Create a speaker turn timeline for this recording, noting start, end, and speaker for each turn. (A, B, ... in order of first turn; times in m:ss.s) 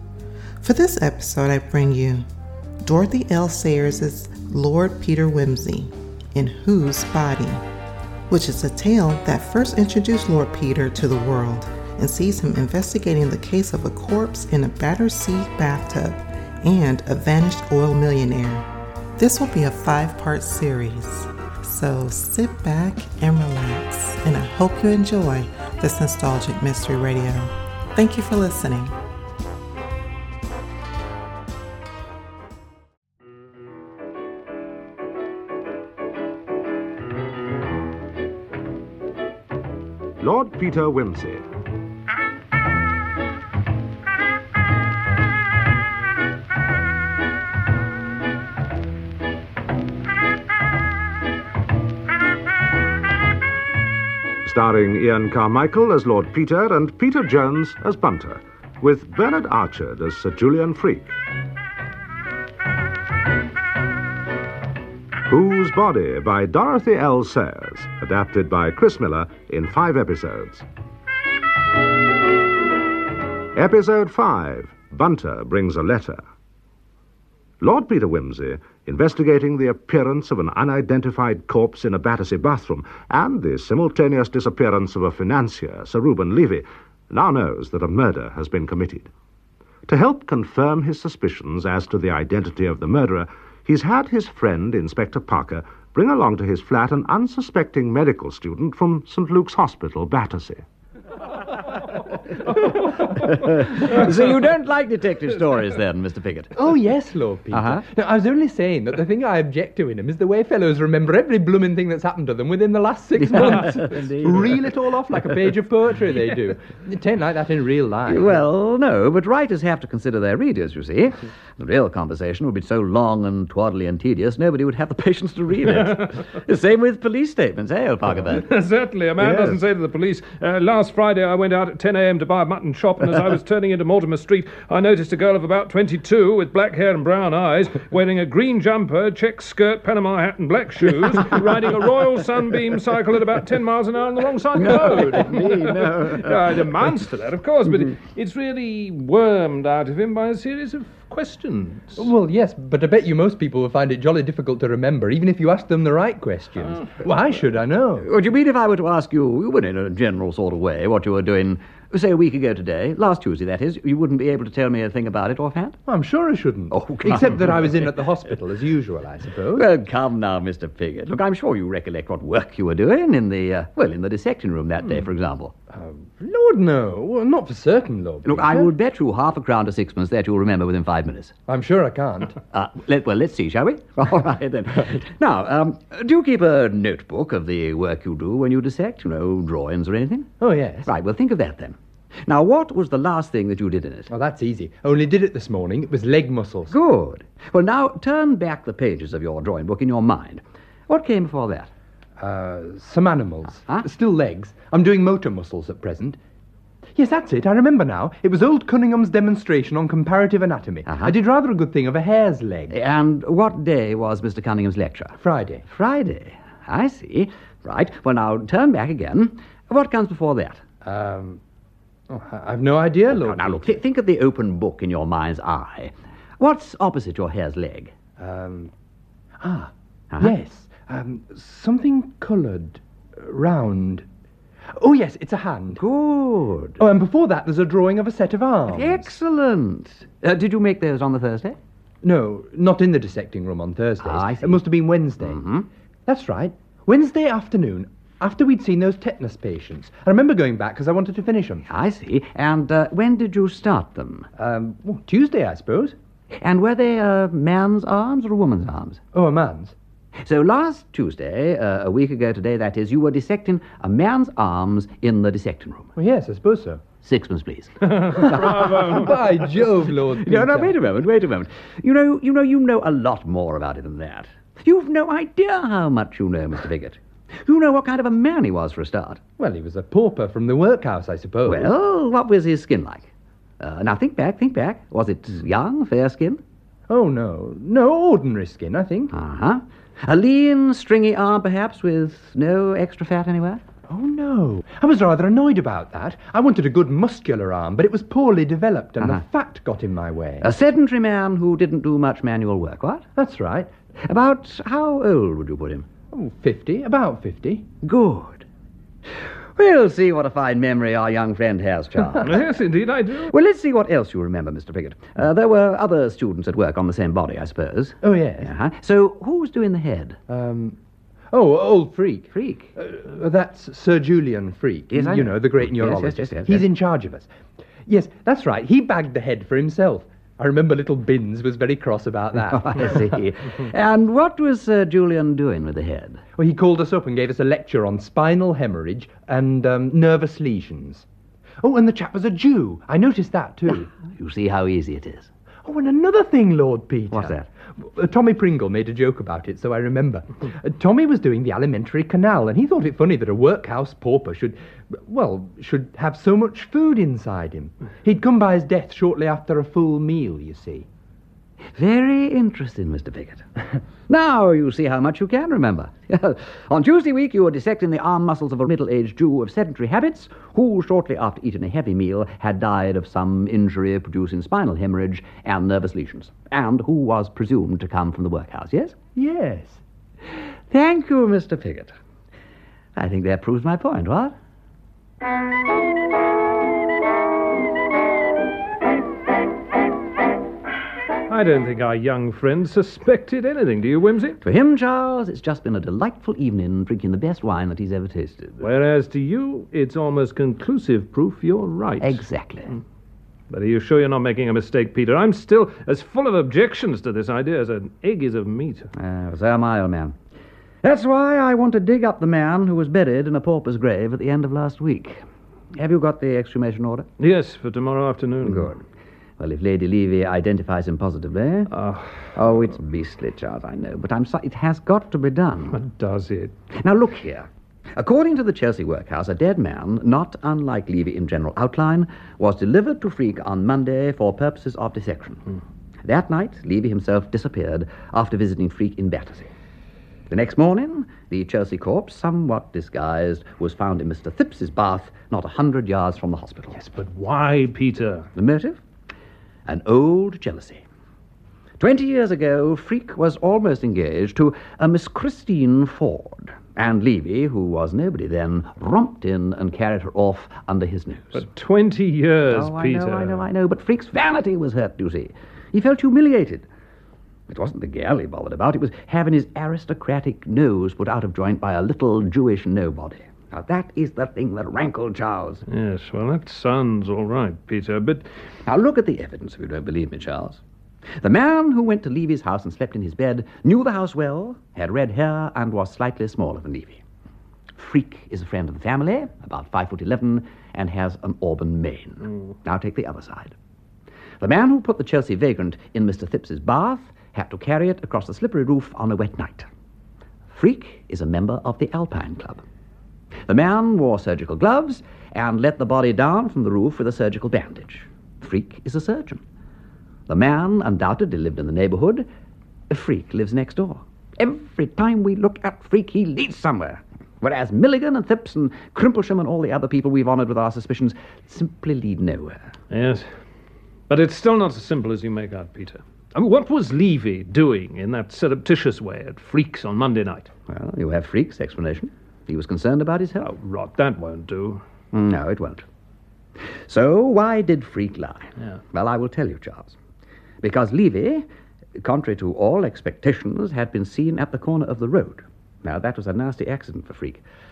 0:00.6-0:02.3 A
0:02.8-0:07.6 A
0:08.3-0:18.7 A
0:19.2-0:28.9 A
0:40.2-0:41.5 B
0:54.4-1:01.2 B
1:05.3-1:10.6 B
1:13.5-1:16.2 B
1:17.6-1:29.1 B
1:29.9-1:40.6 B
1:43.2-1:46.6 C
1:46.6-1:58.4 D
1:47.5-1:47.8 C
1:53.2-1:54.5 C
1:58.1-2:08.5 C
2:08.3-2:32.1 E
2:09.2-2:09.6 C
2:24.6-2:26.6 C
2:32.0-2:38.1 D
2:38.0-2:45.8 C
2:45.9-2:49.7 D
2:46.7-2:47.8 C
2:49.5-2:55.5 C
2:55.7-2:58.7 D
2:58.2-3:01.4 C
3:01.5-3:02.4 D
3:02.5-3:10.3 C
3:10.4-3:10.9 D
3:10.8-3:14.1 C
3:14.1-3:16.7 D
3:16.7-3:21.7 C
3:22.2-3:26.2 D
3:27.0-3:32.8 D
3:30.9-3:31.1 C
3:32.7-3:40.6 C
3:35.2-3:35.6 D
3:40.8-3:41.4 D
3:42.1-3:43.8 D
3:43.1-3:47.9 C
3:48.2-3:48.7 D
3:49.4-3:54.1 D
3:54.7-3:55.8 D
3:55.8-3:56.8 C
3:56.8-3:59.1 D
3:58.7-4:01.6 C
4:02.0-4:05.5 D
4:04.0-4:04.6 C
4:05.2-4:05.7 C
4:06.1-4:11.7 D
4:11.7-4:14.3 C
4:14.4-4:16.0 D
4:16.3-4:19.0 C
4:19.1-4:19.8 D
4:20.2-4:25.9 C
4:26.0-4:26.8 D
4:27.0-4:29.1 C
4:28.1-4:30.8 D
4:28.4-4:28.9 E
4:30.2-4:39.2 C
4:39.4-4:41.7 D
4:41.5-4:46.4 C
4:46.9-4:49.1 D
4:49.1-4:53.6 C
4:53.9-5:00.5 D
5:00.4-5:03.0 C
5:03.2-5:03.7 D
5:04.0-5:05.9 C
5:06.1-5:07.7 D
5:07.8-5:08.4 C
5:09.6-5:12.4 C
5:12.2-5:13.3 E
5:13.3-5:20.2 C
5:18.0-5:18.5 D
5:20.3-5:20.8 D
5:21.3-5:27.3 D
5:22.3-5:22.7 C
5:24.9-5:26.6 C
5:27.9-5:33.0 D
5:32.5-5:36.2 C
5:36.4-5:41.1 D
5:41.6-5:43.9 D
5:44.0-5:45.3 C
5:45.6-6:00.9 D
5:47.1-5:47.5 C
6:01.8-6:03.5 C
6:04.1-6:19.0 C
6:19.2-6:19.8 D
6:20.7-6:22.0 C
6:23.0-6:24.4 C
6:31.3-6:34.4 E
6:34.4-6:38.7 C
6:38.6-6:42.2 E
6:42.0-6:42.8 C
6:43.5-6:48.9 E
6:49.0-6:50.2 C
6:50.8-6:55.2 C
6:55.8-6:57.1 C
6:57.2-6:58.8 E
6:58.4-6:58.8 C
6:59.4-7:01.7 C
7:01.7-7:02.3 E
7:02.3-7:05.8 C
7:05.7-7:06.5 E
7:06.8-7:15.4 C
7:16.0-7:19.5 C
7:20.3-7:26.8 C
7:26.7-7:28.3 E
7:28.4-7:28.8 C
7:29.7-7:30.8 C
7:31.8-7:41.4 C
7:41.3-7:43.4 E
7:42.5-7:46.7 C
7:47.5-7:55.6 C
7:55.7-7:58.3 E
7:58.7-8:00.6 C
8:01.2-8:07.0 C
8:07.8-8:13.6 C
8:14.4-8:19.7 C
8:20.5-8:22.6 C
8:23.5-8:29.4 C
8:30.3-8:32.3 C
8:32.9-8:42.8 C
8:42.9-8:43.4 E
8:44.1-8:50.5 E
8:50.7-8:53.5 C
8:53.4-8:54.8 E
8:55.1-8:55.8 C
8:56.9-9:00.0 C
9:00.6-9:01.4 C
9:02.0-9:07.4 C